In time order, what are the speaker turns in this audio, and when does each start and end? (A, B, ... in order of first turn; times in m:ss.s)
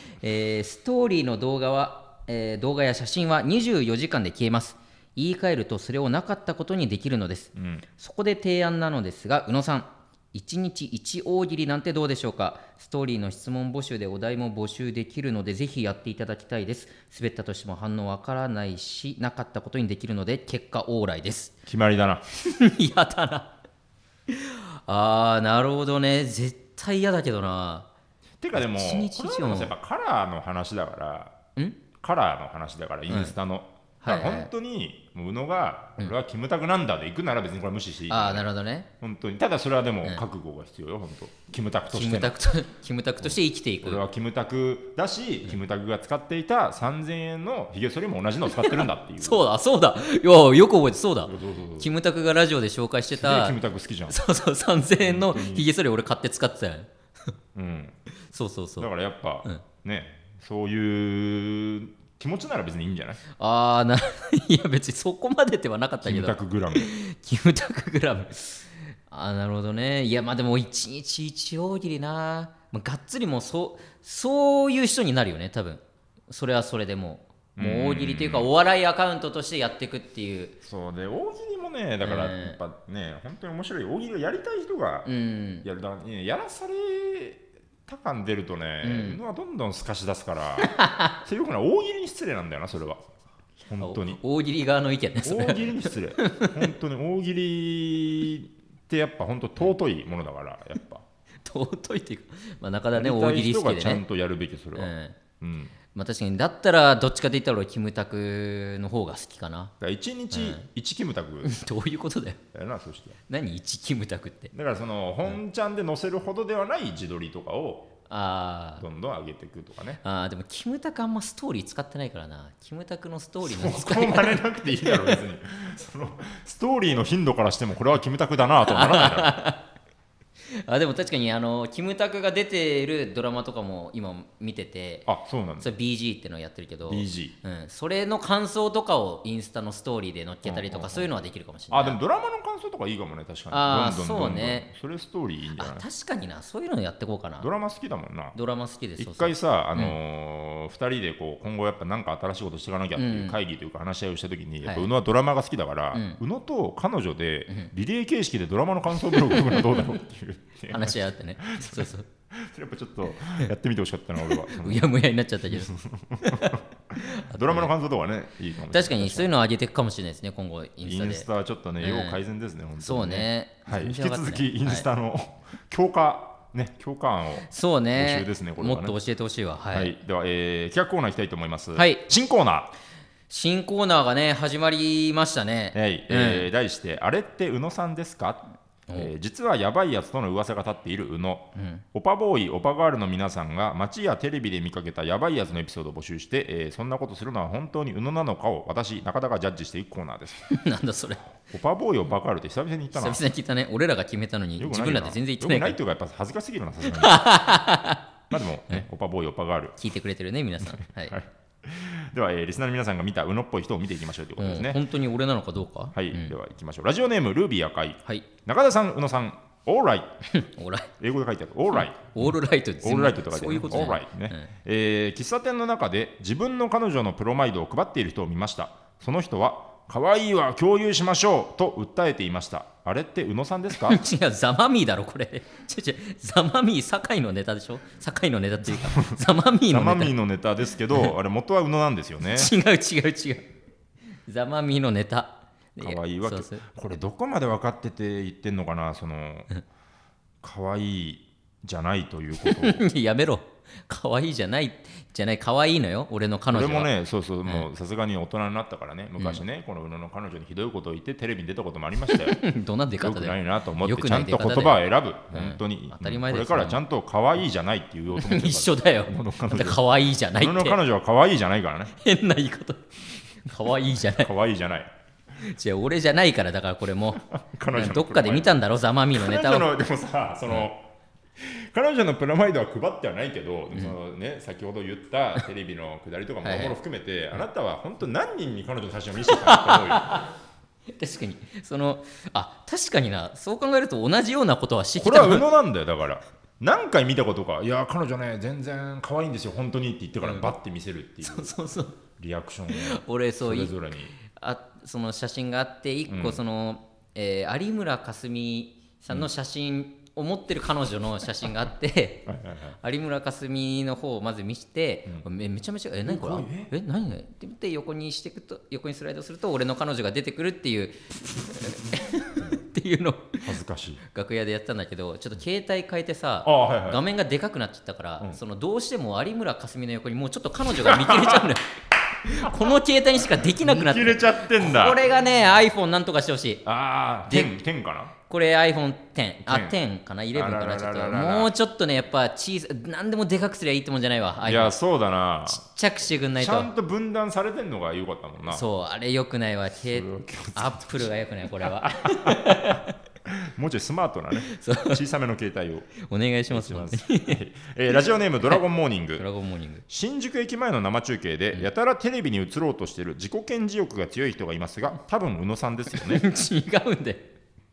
0:00.2-0:21.5 A
0:07.6-0:07.8 B
0:21.7-0:22.2 B
0:22.4-0:23.5 A
0:24.3-0:27.9 A
0:28.4-0:31.4 B
0:28.5-0:29.7 A
0:32.0-0:38.4 B
0:33.1-0:33.4 A
0:34.0-0:34.5 A
0:38.1-0:38.9 A
0:39.0-0:42.4 B
0:41.9-0:44.0 A
0:43.2-0:49.4 B
0:48.6-0:53.6 A
0:51.3-0:51.9 B
0:53.2-0:54.2 B
0:54.1-0:56.9 A
0:55.0-0:55.7 B
0:57.6-0:58.0 B
0:58.3-0:58.9 A
0:58.8-1:03.2 B
1:03.4-1:20.6 A
1:06.0-1:06.9 B
1:17.6-1:18.5 B
1:20.6-1:25.1 B
1:22.0-1:22.6 A
1:25.1-1:25.7 A
1:25.6-1:33.0 B
1:28.8-1:29.2 A
1:30.6-1:31.1 A
1:33.7-1:34.2 B
1:33.8-1:36.7 A
1:35.2-1:41.0 B
1:41.4-1:44.0 A
1:43.0-1:45.7 B
1:44.8-1:45.2 A
1:45.9-1:49.7 A
1:49.8-1:51.6 B
1:50.3-1:50.6 A
1:51.4-1:52.4 A
1:52.5-1:53.2 B
1:53.3-1:54.5 A
1:54.5-1:57.9 B
1:58.1-1:58.8 A
1:58.8-2:00.0 B
2:00.0-2:05.2 A
2:03.4-2:09.4 B
2:08.7-2:09.6 A
2:10.5-2:15.1 A
2:15.1-2:15.7 B
2:15.6-2:22.0 A
2:16.9-2:17.4 B
2:20.4-2:21.1 B
2:21.7-2:25.8 B
2:23.5-2:24.7 A
2:25.6-2:27.5 A
2:27.4-2:28.4 B
2:28.4-2:30.0 A
2:29.0-2:44.9 B
2:33.0-2:33.4 A
2:34.6-2:34.9 A
2:35.9-2:36.2 A
2:39.1-2:39.8 A
2:40.7-2:42.1 A
2:44.2-2:47.7 A
2:45.5-2:49.3 B
2:48.7-2:51.3 A
2:50.8-2:59.0 B
2:51.8-2:52.2 A
2:52.8-2:54.8 A
2:57.5-2:59.9 A
2:59.7-3:02.7 B
3:01.8-3:02.0 A
3:03.3-3:06.5 A
3:05.7-3:20.5 B
3:11.6-3:11.8 A
3:20.5-3:21.3 A
3:21.4-3:23.2 B
3:22.9-3:25.8 A
3:24.6-3:27.2 B
3:26.8-3:28.0 A
3:28.3-3:29.8 B
3:29.8-3:31.2 A
3:30.6-3:34.8 B
3:34.4-3:36.4 A
3:36.0-3:40.2 B
3:40.3-3:40.9 A
3:41.0-3:54.0 B
3:41.7-3:44.5 A
3:53.8-4:00.1 A
3:58.6-4:02.5 B
4:02.3-4:03.4 A
4:04.3-4:06.6 A
4:05.8-4:09.5 B
4:10.4-4:12.8 B
4:12.4-4:16.9 A
4:16.5-4:22.4 B
4:19.2-4:19.4 A
4:22.1-4:26.8 A
4:23.0-4:29.8 B
4:28.2-4:30.8 A
4:30.4-4:32.0 B
4:32.0-4:34.3 A
4:33.9-4:34.9 B
4:35.4-4:39.7 A
4:37.2-4:38.6 B
4:39.1-4:50.3 B
4:46.4-4:46.8 A
4:49.2-4:50.3 A
4:51.0-4:55.5 A
4:55.0-5:01.5 B
5:00.2-5:00.5 A
5:01.2-5:02.0 A
5:02.2-5:04.1 B
5:02.7-5:12.3 A
5:06.1-5:06.4 B
5:12.3-5:12.8 B
5:12.8-5:36.6 A
5:16.1-5:16.7 B
5:23.4-5:24.0 B
5:26.4-5:27.0 B
5:30.7-5:31.5 B
5:32.4-5:32.7 B
5:33.3-5:35.0 B
5:36.7-5:38.1 B
5:37.3-5:37.5 A
5:38.2-5:44.7 A
5:39.5-5:39.8 B
5:40.3-5:41.5 B
5:44.4-5:45.6 B
5:45.5-5:46.7 A
5:46.4-5:48.6 B
5:48.5-5:52.9 A
5:49.9-5:59.3 B
5:54.4-5:55.0 A
5:56.0-5:57.4 A
5:59.2-5:59.8 A
5:59.9-6:06.2 B
6:05.9-6:07.3 A